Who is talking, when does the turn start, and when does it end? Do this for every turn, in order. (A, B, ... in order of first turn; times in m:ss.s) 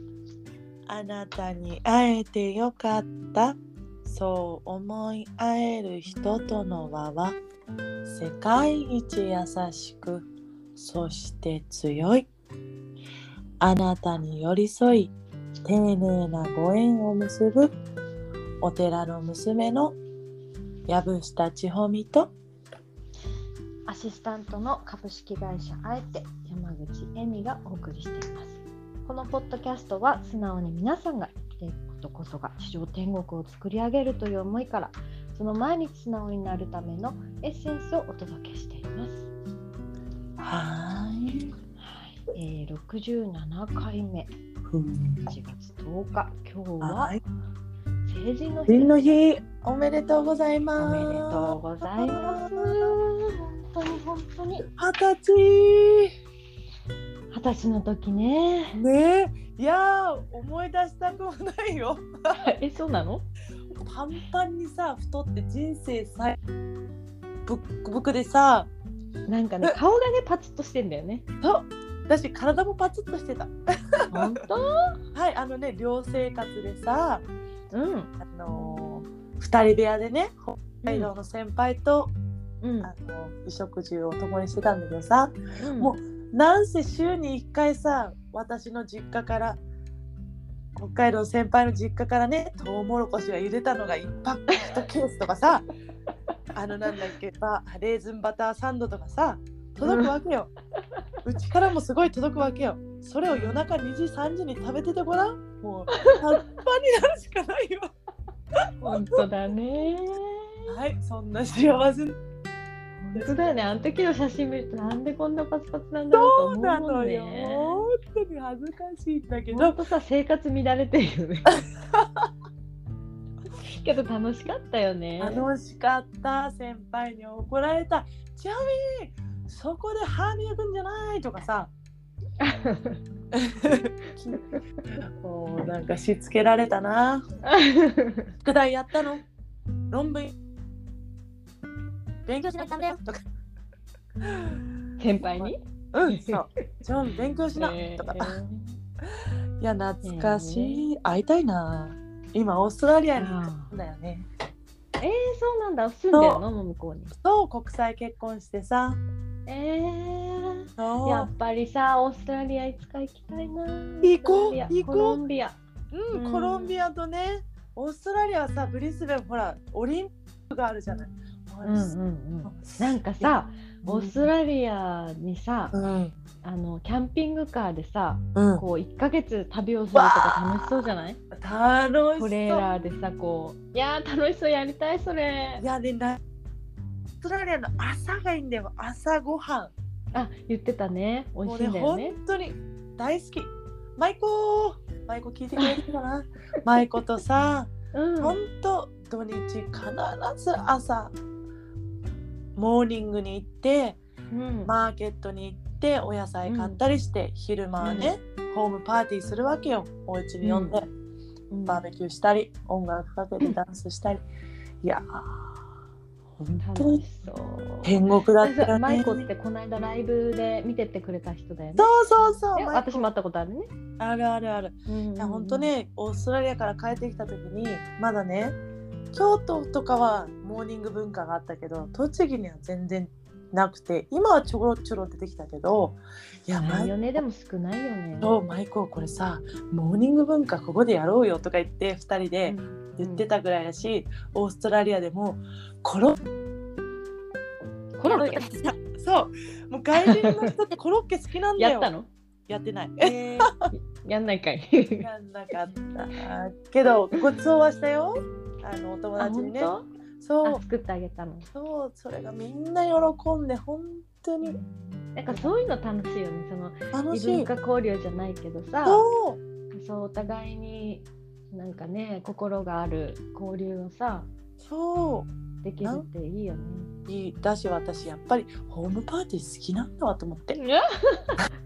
0:00.9-0:07.4 A
0:08.0-0:12.3 A
0:13.6-0:15.1 A
0:15.6-0:17.8 A
0:18.6-0:20.0 A
0:20.9-0:22.3 A
0:23.9-0:39.3 B
0:40.4-0:41.5 A
0:41.8-0:44.3 B
0:44.7-0:45.3 A
0:45.3-0:47.2 B
0:46.8-0:47.2 A
0:48.1-0:49.2 B
0:48.7-0:53.0 A
0:50.8-0:54.7 B
0:54.8-0:56.1 A
0:57.3-0:58.8 B
0:58.8-1:02.4 A
1:02.4-1:03.3 B
1:03.8-1:06.4 A
1:07.5-1:08.7 A
1:09.3-1:11.3 B
1:11.4-1:14.3 A
1:14.1-1:15.0 B
1:15.1-1:17.3 A
1:17.7-1:18.1 B
1:18.3-1:22.1 A
1:20.8-1:21.1 B
1:22.6-1:22.9 B
1:22.8-1:29.6 A
1:25.6-1:26.0 B
1:30.8-1:35.7 A
1:36.5-1:40.5 A
1:39.8-1:40.1 B
1:41.2-1:47.9 A
1:48.8-1:50.7 B
1:48.8-1:49.2 A
1:50.7-1:52.2 A
1:53.0-1:57.9 B
1:53.2-1:53.6 A
1:56.1-1:59.8 A
1:59.5-2:01.6 B
2:01.5-2:02.3 A
2:03.5-2:05.4 B
2:05.2-2:11.7 A
2:12.4-2:13.0 B
2:13.4-2:14.4 A
2:15.0-2:17.2 A
2:17.5-2:18.3 B
2:18.4-2:19.3 A
2:19.9-2:20.4 A
2:22.3-2:23.2 A
2:25.0-2:25.6 B
2:25.2-2:28.4 A
2:26.1-2:26.4 B
2:27.6-2:28.7 B
2:29.6-2:34.3 A
2:30.0-2:30.8 B
2:33.2-2:33.7 B
2:35.0-2:37.2 B
2:36.1-2:36.4 A
2:37.2-2:39.0 A
2:39.5-2:45.6 B
2:40.8-2:41.3 A
2:44.0-2:45.2 A
2:45.9-2:51.9 A
2:46.1-2:46.8 B
2:51.6-2:55.8 B
2:52.4-2:53.3 A
2:53.8-2:54.2 A
2:55.7-2:56.2 A
2:56.4-3:01.2 B
2:58.4-2:58.6 A
2:59.9-3:00.8 A
3:01.3-3:02.7 A
3:02.2-3:05.6 B
3:05.6-3:06.2 A
3:07.2-3:09.7 A
3:10.1-3:12.2 B
3:11.4-3:21.2 A
3:17.9-3:18.4 B
3:22.6-3:24.0 A
3:24.3-3:24.7 B
3:24.6-3:30.9 A
3:26.5-3:26.8 B
3:27.8-3:28.2 B
3:30.4-3:30.8 B
3:31.5-3:31.8 B
3:31.7-3:34.2 A
3:34.8-3:35.6 A
3:36.4-3:37.0 A
3:36.6-3:41.9 B
3:37.8-3:39.3 A
3:41.8-3:43.1 A
3:42.6-3:43.7 B
3:44.0-3:48.6 A
3:44.9-3:45.7 B
3:49.1-3:57.2 A
3:56.6-3:58.4 B
3:58.2-4:06.2 A
4:02.5-4:03.2 B
4:08.0-4:08.6 B
4:08.1-4:11.9 A
4:10.0-4:10.5 B
4:11.6-4:12.1 B
4:12.5-4:13.7 A
4:13.0-4:15.8 B
4:15.0-4:20.6 A
4:19.2-4:19.9 B
4:20.4-4:21.5 B
4:21.5-4:24.6 A
4:24.4-4:29.0 B
4:25.3-4:25.5 A
4:26.9-4:27.5 A
4:28.8-4:29.4 A
4:29.7-4:34.3 B
4:34.6-4:35.3 A
4:35.6-4:36.9 B
4:35.8-4:36.1 A
4:37.1-4:40.6 A
4:40.6-4:41.5 B